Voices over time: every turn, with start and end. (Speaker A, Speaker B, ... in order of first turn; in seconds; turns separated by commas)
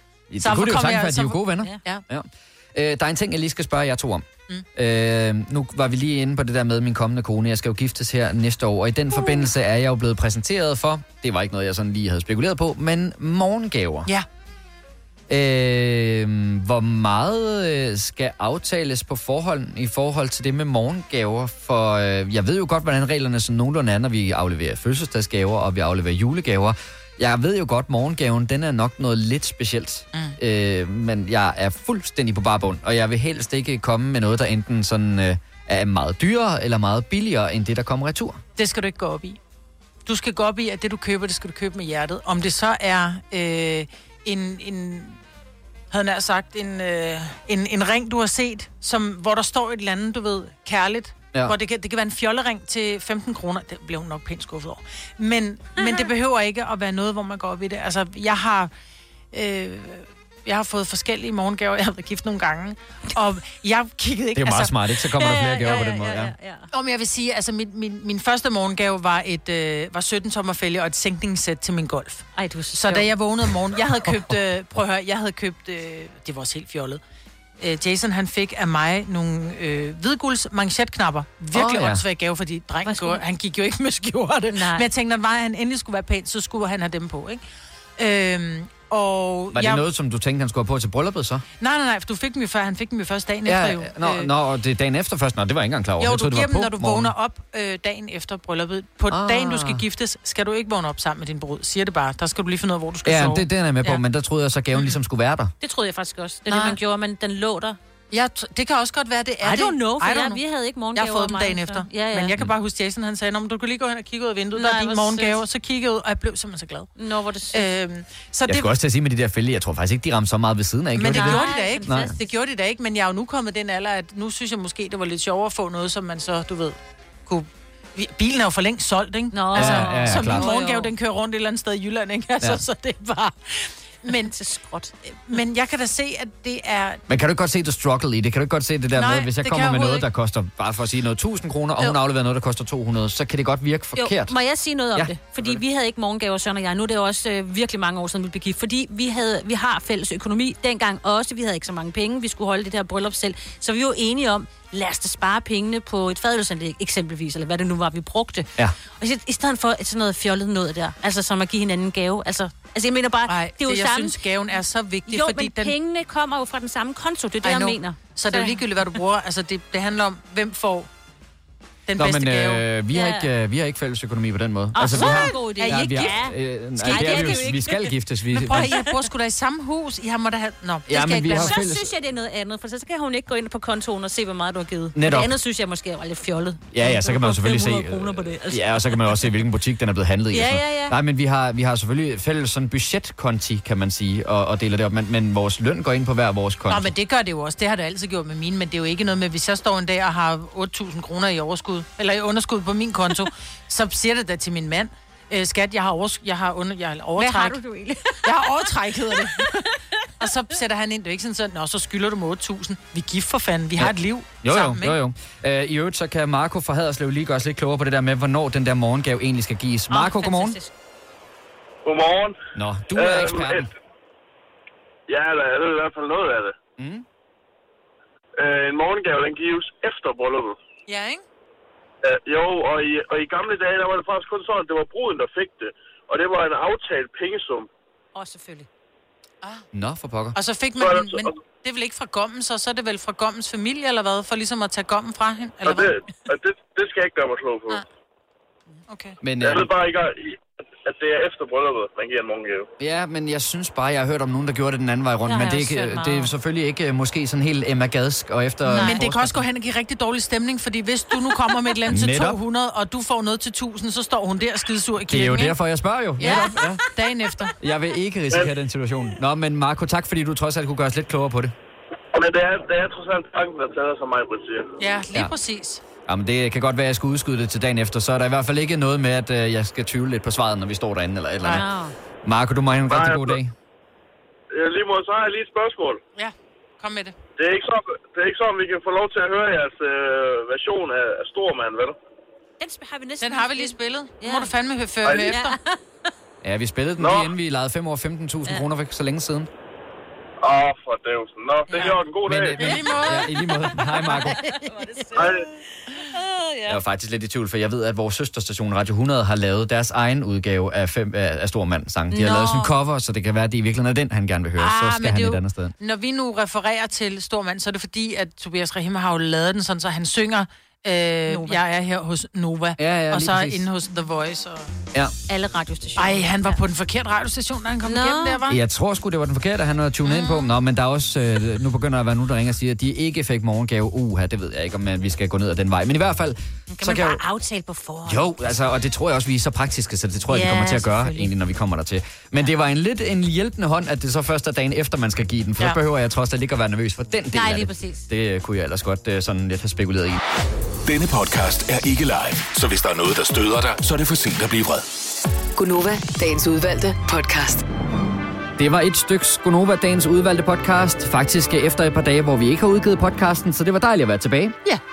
Speaker A: 0.3-14.1, Speaker B: 0.4-2.0, Speaker A: 15.3-38.4, Speaker B: 38.6-39.4, Speaker B: 40.1-45.2, Speaker B: 45.9-58.7, Speaker C: 55.8-56.1, Speaker B: 59.3-65.0, Speaker A: 64.4-66.3, Speaker C: 65.1-66.7, Speaker B: 66.7-77.0, Speaker C: 72.3-73.1, Speaker B: 77.6-87.4, Speaker A: 81.5-82.0, Speaker C: 82.8-83.2, Speaker C: 84.5-84.9, Speaker B: 88.0-89.8, Speaker A: 89.5-91.4, Speaker B: 91.6-94.3, Speaker A: 93.5-97.1, Speaker B: 96.0-104.0, Speaker A: 99.1-99.8, Speaker A: 103.0-105.5, Speaker C: 105.6-107.8, Speaker B: 106.5-106.8, Speaker B: 108.1-110.4, Speaker C: 109.4-112.3, Speaker B: 111.0-116.9, Speaker C: 114.5-115.4, Speaker C: 117.0-117.7, Speaker B: 117.5-118.7, Speaker A: 118.5-122.2, Speaker B: 121.0-126.8, Speaker C: 121.0-122.3, Speaker B: 127.3-134.3, Speaker C: 129.3-130.9, Speaker A: 129.6-130.5, Speaker C: 134.1-134.9, Speaker B: 135.1-137.0, Speaker A: 137.1-144.3, Speaker B: 138.9-140.1, Speaker C: 144.0-164.2, Speaker A: 144.9-145.6, Speaker B: 163.3-165.8, Speaker C: 165.1-168.7, Speaker B: 167.4-170.9, Speaker B: 171.9-172.7, Speaker A: 172.0-178.7, Speaker C: 172.9-173.3, Speaker C: 174.7-177.9, Speaker B: 174.9-176.2, Speaker B: 176.8-177.5, Speaker B: 178.3-181.6, Speaker C: 178.5-178.9, Speaker A: 180.9-181.9, Speaker C: 181.3-189.3, Speaker A: 184.9-185.3, Speaker A: 186.7-196.9, Speaker C: 190.3-191.0, Speaker B: 196.7-207.6, Speaker C: 207.2-209.8, Speaker B: 208.2-215.0, Speaker A: 213.8-220.6, Speaker C: 219.9-220.7, Speaker D: 221.8-222.4, Speaker A: 222.5-223.7, Speaker D: 222.9-223.7, Speaker D: 225.1-226.5, Speaker A: 226.8-227.1, Speaker D: 228.4-230.6, Speaker B: 230.9-231.2, Speaker D: 232.0-237.7, Speaker C: 238.2-238.7, Speaker A: 239.7-240.4, Speaker B: 240.3-246.0, Speaker D: 240.8-241.4, Speaker D: 245.7-247.8, Speaker B: 248.9-249.2, Speaker A: 249.2-249.7, Speaker D: 249.4-252.7, Speaker A: 252.8-259.4, Speaker C: 255.2-256.3, Speaker C: 258.7-259.0, Speaker B: 258.8-265.6, Speaker C: 261.3-261.6, Speaker A: 261.9-262.4, Speaker A: 265.1-266.8, Speaker B: 266.2-267.5, Speaker C: 266.2-266.8, Speaker A: 267.6-271.5, Speaker D: 272.1-274.8, Speaker B: 274.8-275.8, Speaker A: 276.1-281.7, Speaker C: 281.5-281.9, Speaker A: 282.2-283.5, Speaker D: 282.9-283.4, Speaker D: 284.5-286.0, Speaker B: 286.1-287.1, Speaker D: 287.4-292.0, Speaker C: 292.6-294.5, Speaker B: 293.2-295.6, Speaker D: 295.1-295.3, Speaker C: 295.3-295.8, Speaker A: 296.4-299.5, Speaker D: 297.0-297.3, Speaker D: 300.4-302.6, Speaker C: 301.7-302.0, Speaker B: 301.7-302.0, Speaker A: 302.2-304.5, Speaker B: 302.6-303.4, Speaker C: 302.6-306.8, Speaker D: 305.1-305.4, Speaker A: 306.7-315.7, Speaker C: 312.1-312.8, Speaker B: 314.6-324.7, Speaker C: 321.3-321.6, Speaker A: 322.8-323.7, Speaker C: 325.3-326.6, Speaker B: 326.0-328.6, Speaker C: 327.8-328.4, Speaker A: 328.5-337.2, Speaker C: 330.1-330.5, Speaker C: 336.7-338.4, Speaker A: 338.1-350.2, Speaker C: 340.3-341.3, Speaker C: 347.3-348.1, Speaker E: 350.9-354.9, Speaker F: 355.6-357.6, Speaker A: 358.6-364.6